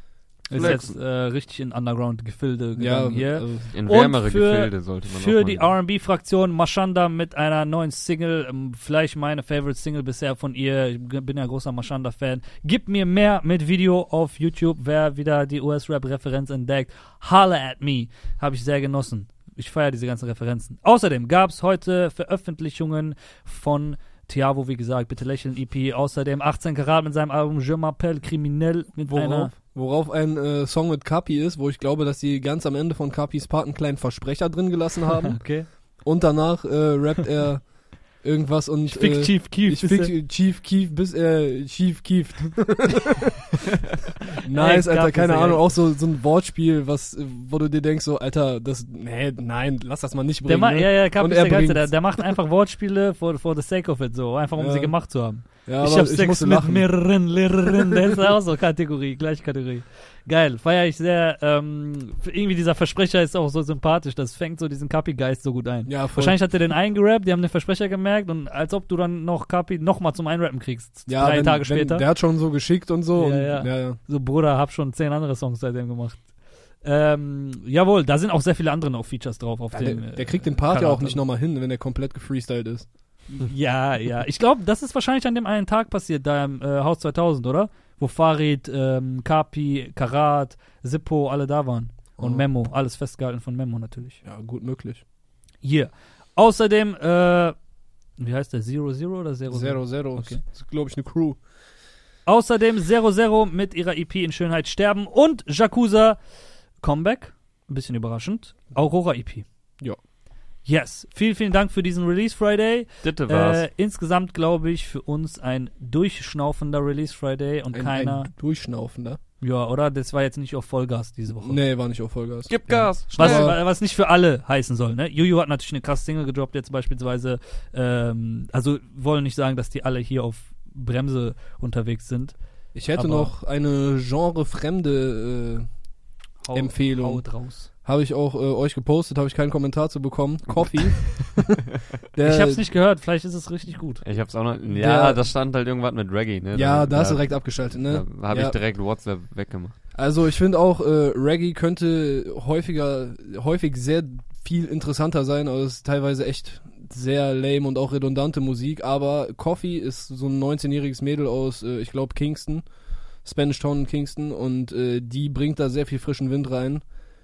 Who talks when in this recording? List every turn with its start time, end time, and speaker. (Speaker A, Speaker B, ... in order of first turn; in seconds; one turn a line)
Speaker A: 0.5-29.5
Speaker B: 0.5-1.0
Speaker C: 2.8-3.7
Speaker B: 3.7-5.8
Speaker C: 29.1-43.4
Speaker A: 35.3-35.7
Speaker A: 38.9-40.1
Speaker C: 44.4-52.3
Speaker A: 44.5-45.7
Speaker A: 50.5-72.1
Speaker C: 54.6-57.3
Speaker C: 65.9-66.5
Speaker C: 71.1-74.0
Speaker A: 73.2-81.2
Speaker C: 79.7-82.9
Speaker A: 83.3-94.2
Speaker C: 92.2-92.5
Speaker C: 94.2-95.0
Speaker A: 95.6-97.6
Speaker A: 98.2-100.4
Speaker C: 99.5-101.4
Speaker A: 102.3-106.2
Speaker A: 106.8-109.5
Speaker A: 110.7-118.3
Speaker B: 113.0-113.7
Speaker C: 117.7-119.2
Speaker A: 119.4-121.6
Speaker C: 121.4-123.6
Speaker B: 122.5-123.6
Speaker A: 122.7-133.3
Speaker C: 132.7-135.8
Speaker A: 136.4-137.7
Speaker C: 136.5-141.6
Speaker B: 140.7-141.3
Speaker C: 142.1-142.7
Speaker A: 142.2-144.0
Speaker B: 144.0-149.8
Speaker C: 144.7-145.2
Speaker C: 146.5-148.6
Speaker C: 149.9-166.9